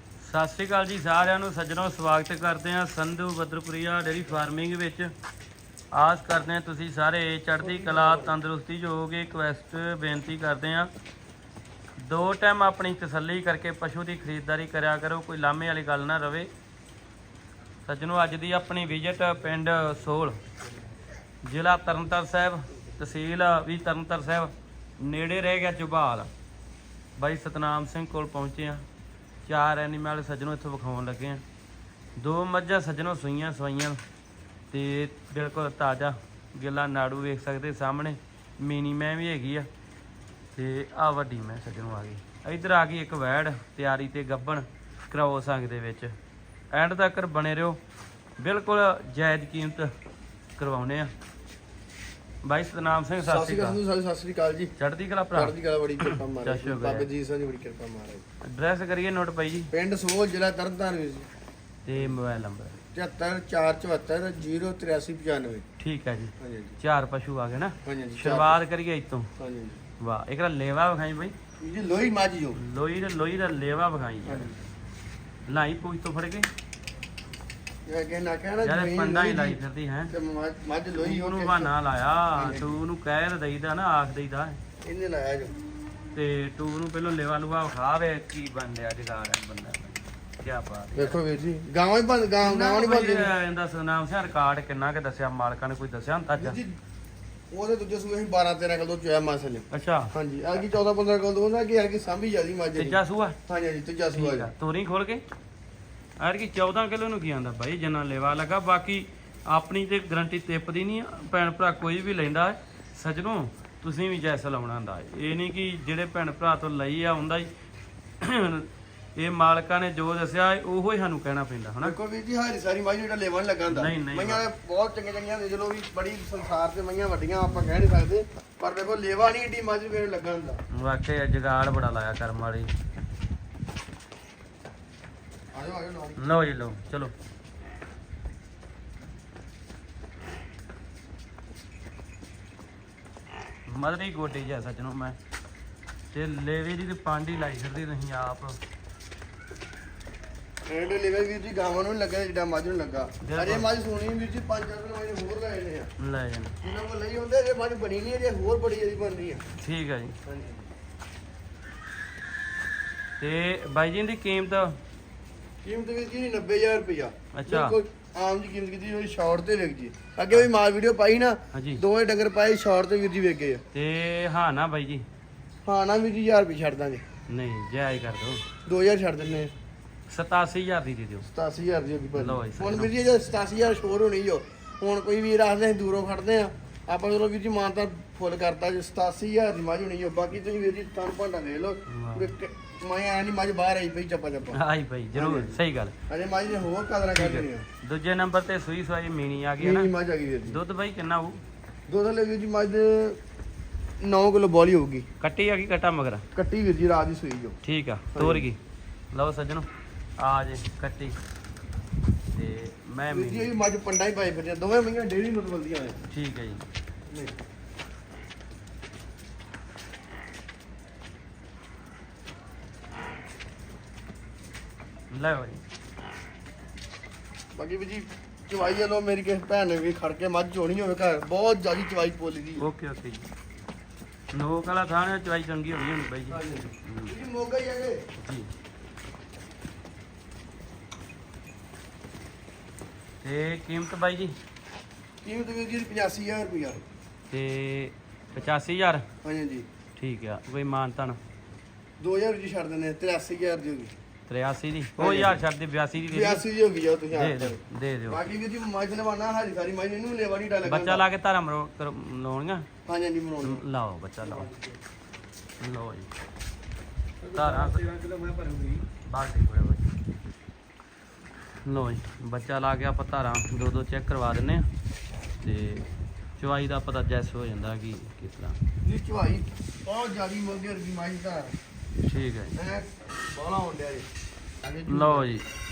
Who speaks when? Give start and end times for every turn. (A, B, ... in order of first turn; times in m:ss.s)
0:00.2-0:05.1 A
0:05.9-0:10.9 A
0:07.6-0:08.3 B
0:12.0-0:16.5 A
0:17.8-0:20.4 A
0:21.4-0:26.3 A
0:27.2-0:28.8 A
0:29.4-0:31.4 A
0:32.2-0:34.0 A
0:34.7-0:39.7 A
0:40.5-0:46.1 A
0:46.7-0:47.8 A
0:48.4-0:49.9 A
0:50.6-0:51.1 A
0:52.4-0:53.8 A
0:53.2-0:54.7 B
0:54.8-0:57.1 A
0:55.3-0:58.2 B
0:58.5-0:59.7 A
0:59.7-1:01.3 B
1:01.8-1:02.8 A
1:02.9-1:05.6 B
1:05.8-1:09.3 A
1:06.4-1:06.8 B
1:07.8-1:08.6 B
1:09.4-1:09.8 B
1:10.0-1:11.3 A
1:11.6-1:12.6 B
1:12.6-1:14.5 A
1:14.2-1:14.5 B
1:15.5-1:16.5 A
1:17.8-1:19.6 B
1:18.6-1:20.1 A
1:20.1-1:21.7 B
1:20.9-1:24.6 A
1:22.3-1:22.8 B
1:24.8-1:25.5 B
1:26.1-1:31.2 A
1:30.9-1:33.3 B
1:32.4-1:36.6 A
1:36.4-1:36.8 B
1:37.5-1:44.5 B
1:39.7-1:40.1 A
1:42.7-1:43.4 A
1:44.1-1:45.2 A
1:46.2-1:57.5 A
1:58.2-2:02.0 A
2:01.8-2:10.6 B
2:03.7-2:04.4 A
2:10.7-2:12.7 A
2:15.5-2:16.2 B
2:16.2-2:17.1 A
2:23.7-2:25.2 A
2:26.1-2:28.6 A
2:30.6-2:35.9 B
2:33.2-2:33.7 A
2:36.0-2:36.5 A
2:36.6-2:39.4 B
2:39.6-2:40.1 A
2:40.2-2:40.6 B
2:43.2-2:44.8 A
2:45.6-2:53.6 B
2:47.3-2:47.8 A
2:51.5-2:51.8 A
2:53.7-2:55.0 A
2:55.6-2:57.0 B
2:57.3-2:58.4 A
2:58.6-2:59.5 B
3:00.1-3:01.3 A
3:01.3-3:14.6 B
3:02.2-3:02.9 A
3:11.9-3:12.3 A
3:14.5-3:15.9 A
3:15.1-3:17.6 B
3:17.1-3:19.9 A
3:19.6-3:20.6 B
3:20.5-3:21.4 A
3:21.9-3:23.2 B
3:24.0-3:25.0 B
3:25.2-3:26.2 A
3:26.3-3:27.6 B
3:27.6-3:28.6 A
3:28.1-3:28.5 B
3:29.1-3:29.7 A
3:30.2-3:31.2 A
3:32.3-3:33.5 A
3:33.1-3:36.0 B
3:36.1-3:36.6 A
3:37.1-3:37.3 B
3:45.1-3:45.6 A
3:47.5-3:52.6 B
3:52.6-3:53.2 A
3:54.3-3:57.2 A
3:56.3-3:58.0 B
3:58.2-3:58.5 A
4:03.2-4:04.4 A
4:05.2-4:06.8 B
4:07.3-4:09.0 A
4:09.2-4:09.6 B
4:10.0-4:11.2 A
4:12.0-4:13.9 B
4:14.3-4:16.4 A
4:15.0-4:15.4 B
4:16.0-4:21.0 B
4:17.1-4:18.2 A
4:20.6-4:22.7 A
4:22.8-4:23.6 B
4:23.4-4:24.5 A
4:24.2-4:24.7 B
4:25.6-4:26.1 A
4:27.2-4:28.8 B
4:27.3-4:27.8 A
4:29.0-4:30.0 A
4:31.6-4:34.7 A
4:35.4-4:38.6 A
4:38.8-4:41.6 B
4:42.0-4:42.5 A
4:42.6-4:44.1 B
4:44.6-4:45.3 B
4:44.9-4:45.4 A